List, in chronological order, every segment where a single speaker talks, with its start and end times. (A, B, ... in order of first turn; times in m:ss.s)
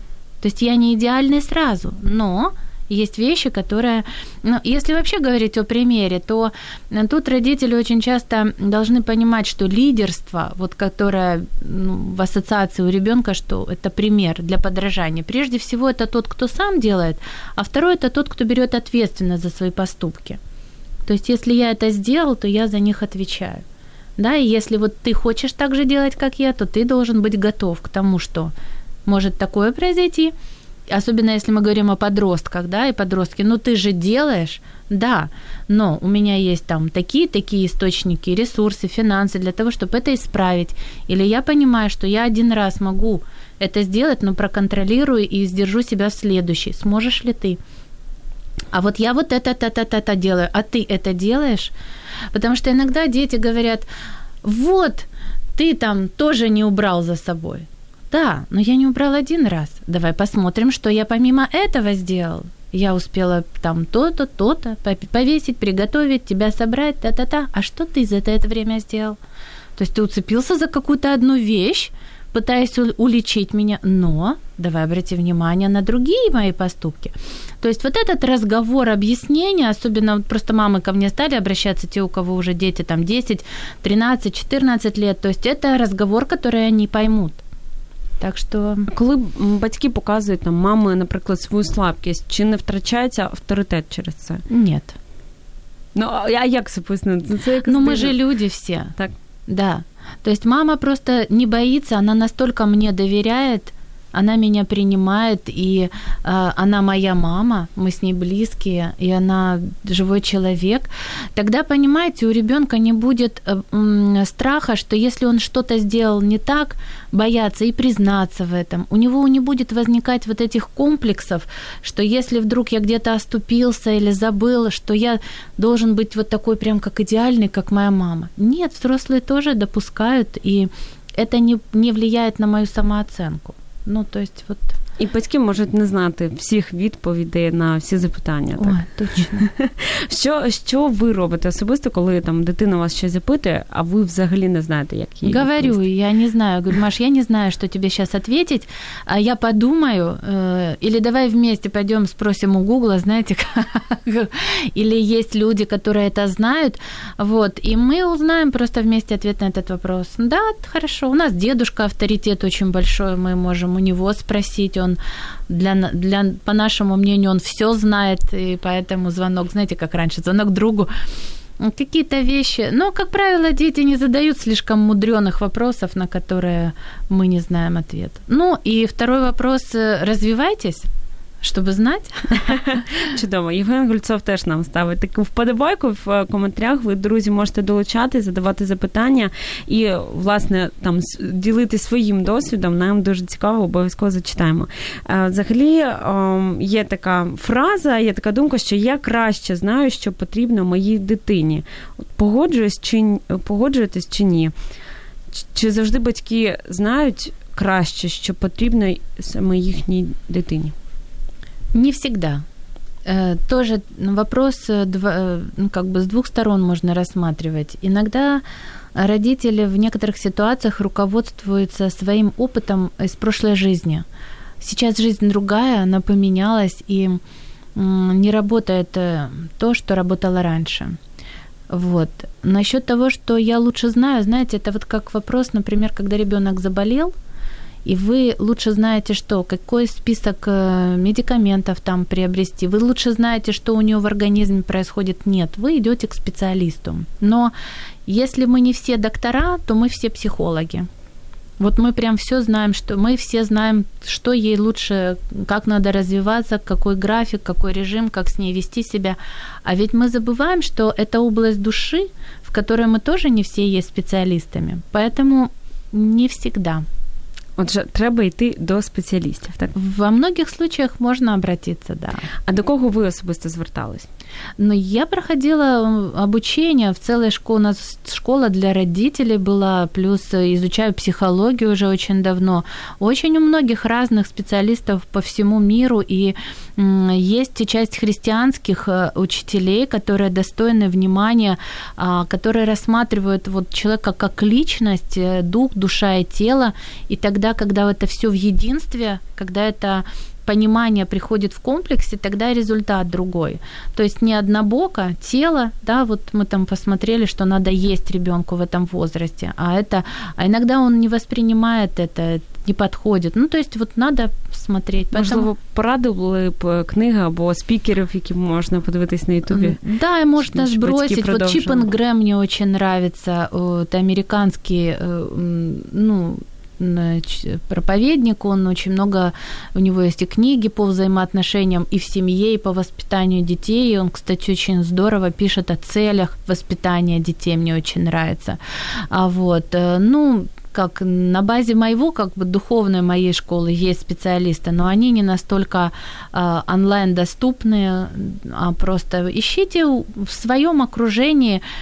0:00.4-0:20.4 A
0:21.1-0:23.6 A
0:24.2-0:28.5 A
0:29.1-0:30.3 A
0:30.9-0:47.6 A
0:48.7-0:51.7 A
0:52.3-0:53.9 A
0:54.4-1:09.2 A
1:09.8-1:27.4 A
1:28.2-1:28.9 A
1:28.9-1:34.4 B
1:34.5-1:35.0 A
1:36.0-1:38.2 B
1:37.6-1:39.0 A
1:39.5-2:14.7 A
2:15.0-2:25.8 B
2:18.6-2:19.5 A
2:25.2-2:50.9 A
2:51.6-3:00.9 A
3:01.4-3:02.6 A
3:02.5-3:21.6 B
3:22.2-3:24.5 B
3:25.3-3:30.7 B
3:31.7-3:32.4 A
3:33.0-3:38.4 A
3:39.0-3:44.0 A
3:44.6-3:47.2 A
3:47.8-3:51.0 A
3:51.7-3:57.1 A
3:57.8-4:07.5 A
4:08.1-4:10.9 A
4:11.6-4:26.9 A
4:27.6-4:29.8 B
4:29.8-4:32.3 A
4:32.5-4:34.1 B
4:34.6-5:15.5 A
5:15.1-5:19.8 B
5:19.5-5:38.6 A
5:20.5-5:21.9 B
5:39.1-5:51.6 A